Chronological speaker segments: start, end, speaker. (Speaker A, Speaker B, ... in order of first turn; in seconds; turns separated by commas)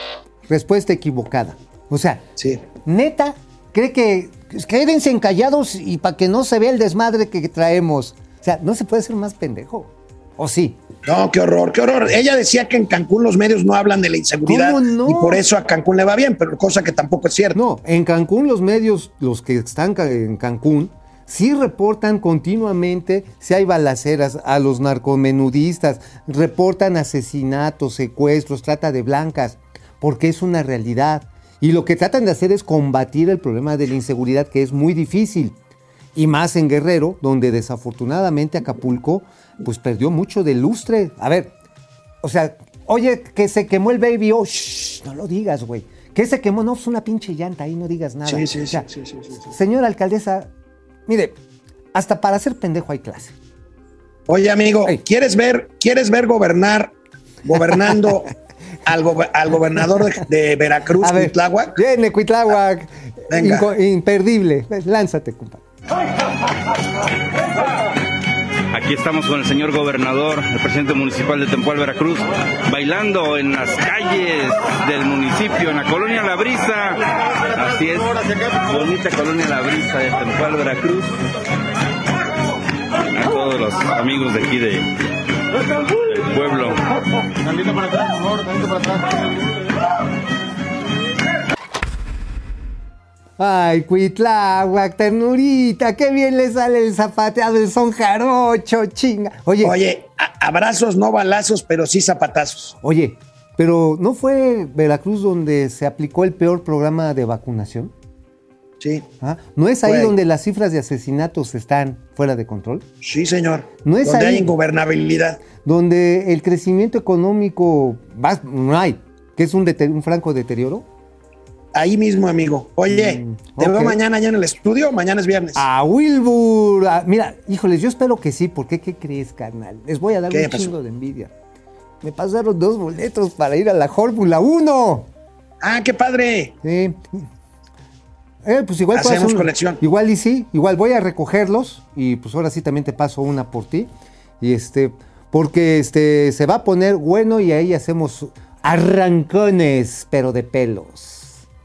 Speaker A: 0.5-2.2, Speaker A: 2.7-10.8, Speaker B: 11.1-17.6, Speaker A: 14.4-15.4, Speaker A: 17.6-35.6, Speaker A: 36.1-41.5, Speaker A: 42.2-48.9, Speaker B: 48.3-49.5, Speaker A: 49.5-50.5, Speaker A: 51.1-51.4, Speaker A: 51.9-53.4, Speaker B: 54.3-56.9, Speaker B: 57.5-58.3, Speaker B: 58.9-61.8, Speaker A: 61.0-65.6, Speaker B: 63.3-63.7, Speaker C: 68.7-81.2, Speaker C: 83.1-85.0, Speaker C: 86.1-86.9, Speaker A: 93.4-99.7, Speaker B: 99.6-102.7, Speaker A: 102.8-107.9, Speaker B: 108.8-109.1, Speaker A: 109.2-112.9, Speaker B: 109.8-110.1, Speaker B: 113.0-115.4, Speaker A: 113.8-114.5, Speaker A: 115.6-120.9, Speaker B: 121.7-125.7, Speaker A: 122.9-124.0, Speaker A: 125.6-131.3, Speaker B: 130.3-130.7, Speaker A: 132.0-135.1, Speaker B: 135.6-136.5, Speaker A: 136.6-137.2, Speaker A: 138.4-151.4, Speaker B: 138.9-139.8